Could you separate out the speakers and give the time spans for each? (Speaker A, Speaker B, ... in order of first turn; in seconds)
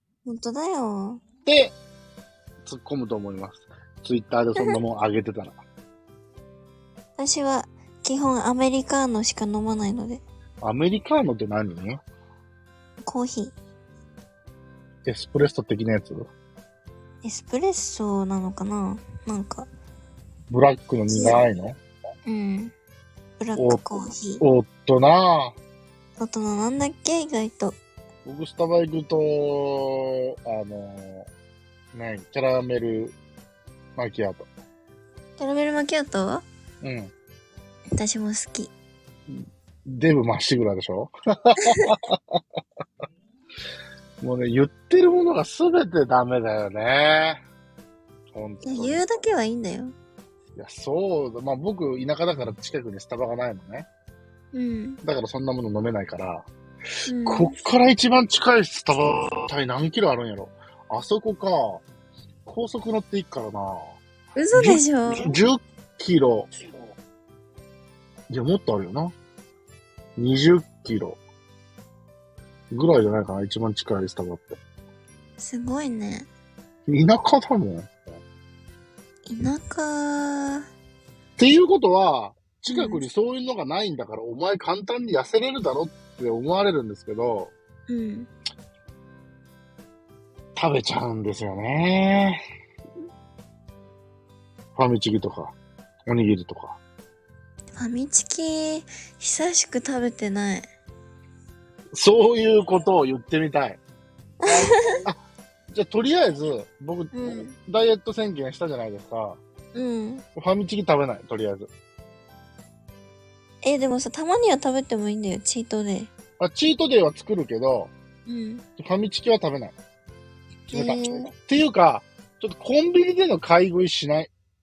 Speaker A: 0.2-1.2, 7.2-10.2, 13.0-13.6, 17.2-19.7, 21.1-21.4, 22.3-22.7, 23.4-24.4, 26.2-27.8, 35.4-36.5, 37.9-38.7, 48.6-49.9, 54.5-55.0, 57.1-57.5, 64.3-65.3, 75.4-76.3, 79.3-80.7, 82.7-83.0, 87.9-88.3, 97.7-100.7, 104.4-105.0, 107.1-107.5, 109.7-110.2, 113.6-116.1, 118.3-118.6, 120.7-121.3
Speaker B: 1.4-1.8, 2.6-5.6, 10.6-12.0, 15.1-16.3, 20.5-21.8, 24.4-25.6, 28.2-31.3, 31.9-33.1, 34.0-34.5, 36.8-37.1, 39.3-42.4, 44.2-47.4, 48.3-49.0, 50.6-53.9, 55.0-56.5, 57.2-61.8, 62.5-64.0, 64.5-66.5, 68.3-69.2, 70.2-71.2, 72.7-74.6, 76.9-77.9, 81.4-87.5, 90.6-92.4, 94.8-95.5, 96.1-96.8, 101.9-103.8, 104.5-105.2, 105.7-109.4, 110.3-111.7, 116.4-117.9, 118.8-119.8, 120.7-124.3